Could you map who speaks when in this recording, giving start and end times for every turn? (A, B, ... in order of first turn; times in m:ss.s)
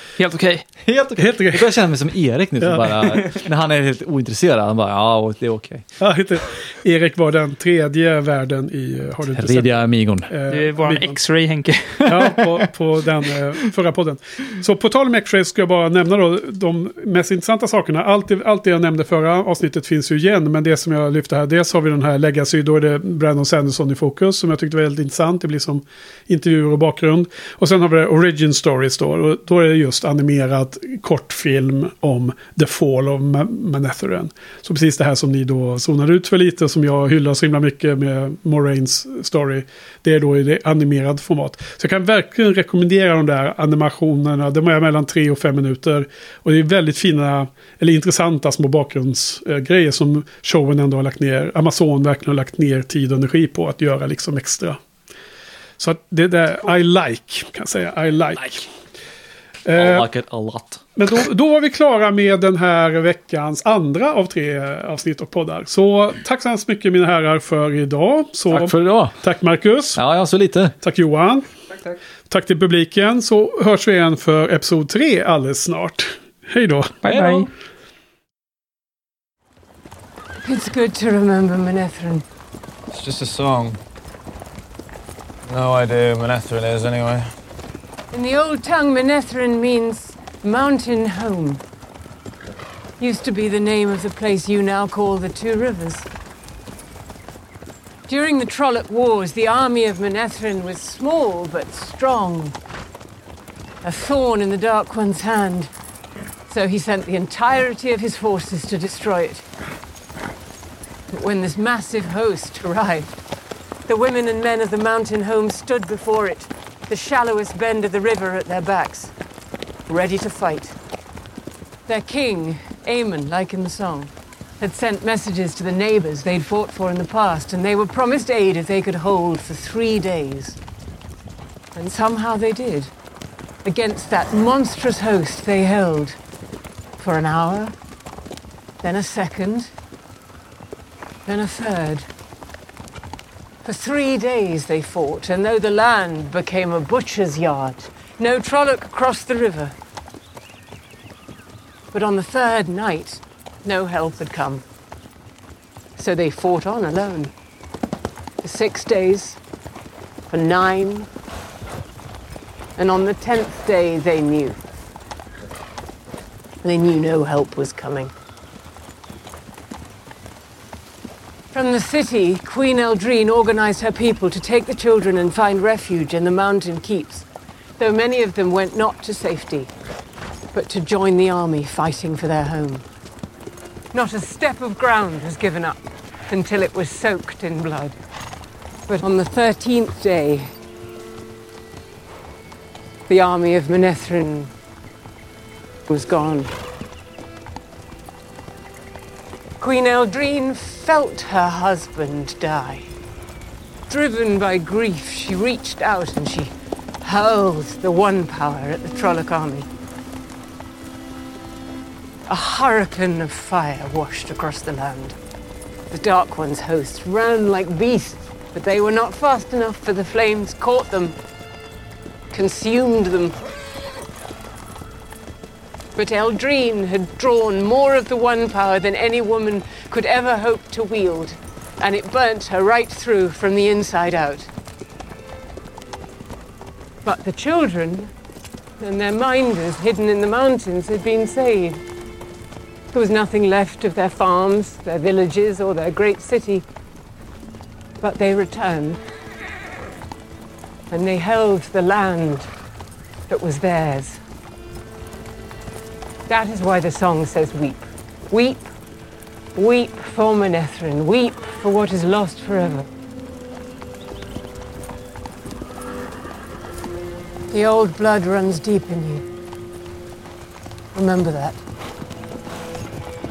0:00.2-0:00.6 A
0:00.8-0:05.8 B
0:01.2-0:01.8 C
0:02.6-0:03.2 C
0:06.0-0:09.7 C
0:09.3-0:10.3 B
0:10.3-0:11.2 C
0:10.5-0:12.4 A
0:12.0-0:54.8 C
0:55.8-0:58.7 C
0:59.6-1:00.0 C
0:59.8-1:00.8 B
1:01.0-1:10.0 C
1:08.5-1:09.2 B
1:09.9-1:10.7 B
1:10.8-1:11.5 C
1:12.3-1:17.0 C
1:17.0-1:17.5 A
1:17.0-1:17.5 B
1:20.4-1:22.2 D
1:22.9-1:23.8 E
1:25.5-1:27.3 E
1:28.1-1:31.6 D
1:33.0-1:36.1 D
1:38.1-1:42.6 D
1:43.8-1:45.7 D
1:46.5-1:49.4 D
1:51.1-1:53.1 D
1:53.9-1:59.1 D
1:59.9-2:00.8 D
2:01.9-2:10.6 D
2:11.7-2:12.9 D
2:13.6-2:16.2 D
2:17.0-2:17.7 D
2:18.8-2:19.7 D
2:21.2-2:22.1 D
2:23.6-2:29.7 D
2:31.9-2:34.6 D
2:36.0-2:37.3 D
2:38.4-2:39.4 D
2:40.3-2:41.1 D
2:42.8-2:44.6 D
2:46.6-2:48.1 D
2:51.5-2:57.2 D
2:57.8-2:59.7 D
3:00.5-3:02.8 D
3:03.9-3:07.9 D
3:08.9-3:10.5 D
3:13.1-3:14.5 D
3:15.9-3:16.5 D
3:19.6-3:22.9 D
3:23.9-3:29.7 D
3:32.2-3:35.2 D
3:35.9-3:41.2 D
3:42.3-3:43.4 D
3:46.0-3:54.5 D
3:57.0-3:58.1 D
3:58.8-4:01.8 D
4:02.9-4:06.6 D
4:08.0-4:09.0 D
4:10.9-4:12.5 D
4:13.3-4:14.2 D
4:16.3-4:18.7 D
4:19.5-4:22.9 D
4:27.5-4:29.2 D
4:30.9-4:31.6 D